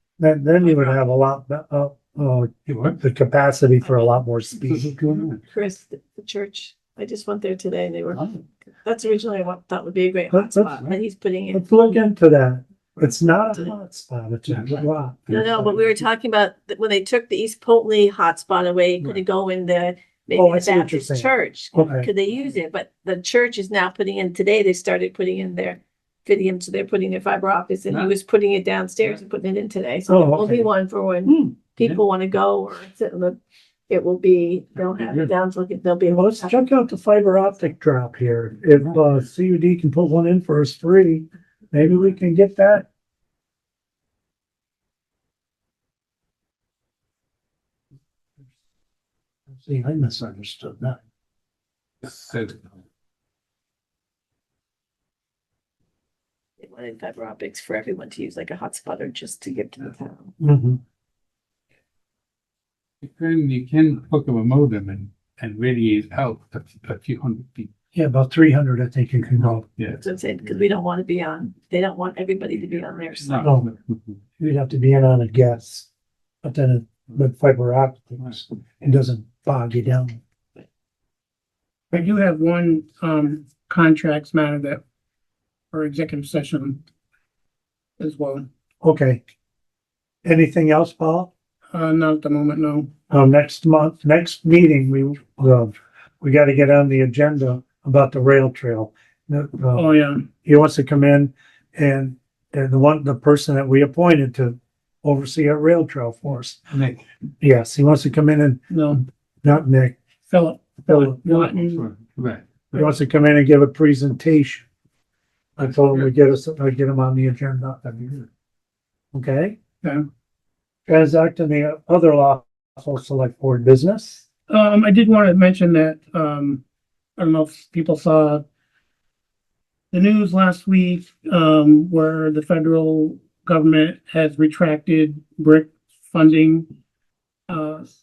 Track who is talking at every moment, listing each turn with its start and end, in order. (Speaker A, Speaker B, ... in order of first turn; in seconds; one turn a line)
Speaker A: 0.2-5.2
Speaker B: 0.6-1.0
Speaker C: 2.7-3.0
Speaker C: 4.7-5.4
Speaker D: 5.5-8.2
Speaker C: 8.1-8.4
Speaker D: 8.8-11.6
Speaker A: 10.3-10.8
Speaker A: 11.5-15.3
Speaker C: 14.5-16.0
Speaker D: 15.3-33.4
Speaker A: 20.3-22.1
Speaker A: 30.1-30.7
Speaker A: 31.2-31.5
Speaker D: 33.9-36.6
Speaker A: 36.1-42.9
Speaker A: 49.5-51.0
Speaker C: 52.0-52.7
Speaker D: 56.6-60.3
Speaker A: 60.4-60.8
Speaker C: 63.0-67.7
Speaker A: 67.9-69.6
Speaker C: 69.6-70.0
Speaker D: 70.0-73.5
Speaker C: 73.2-74.2
Speaker A: 73.4-73.7
Speaker A: 74.4-75.9
Speaker A: 76.4-80.2
Speaker B: 81.9-84.8
Speaker B: 85.7-86.8
Speaker B: 88.0-88.5
Speaker A: 88.8-89.2
Speaker A: 90.2-91.3
Speaker B: 91.7-92.9
Speaker A: 93.1-99.9
Speaker B: 99.7-100.3
Speaker A: 100.4-106.6
Speaker C: 106.7-107.0
Speaker A: 107.4-108.6
Speaker B: 108.7-109.0
Speaker A: 109.4-110.0
Speaker B: 110.3-111.9
Speaker A: 110.9-111.5
Speaker C: 111.6-112.6
Speaker A: 112.7-114.7
Speaker A: 115.6-118.3
Speaker A: 119.1-119.6
Speaker A: 120.9-124.2
Speaker B: 124.5-126.6
Speaker B: 127.2-128.4
Speaker B: 129.9-136.7
Speaker B: 137.5-137.8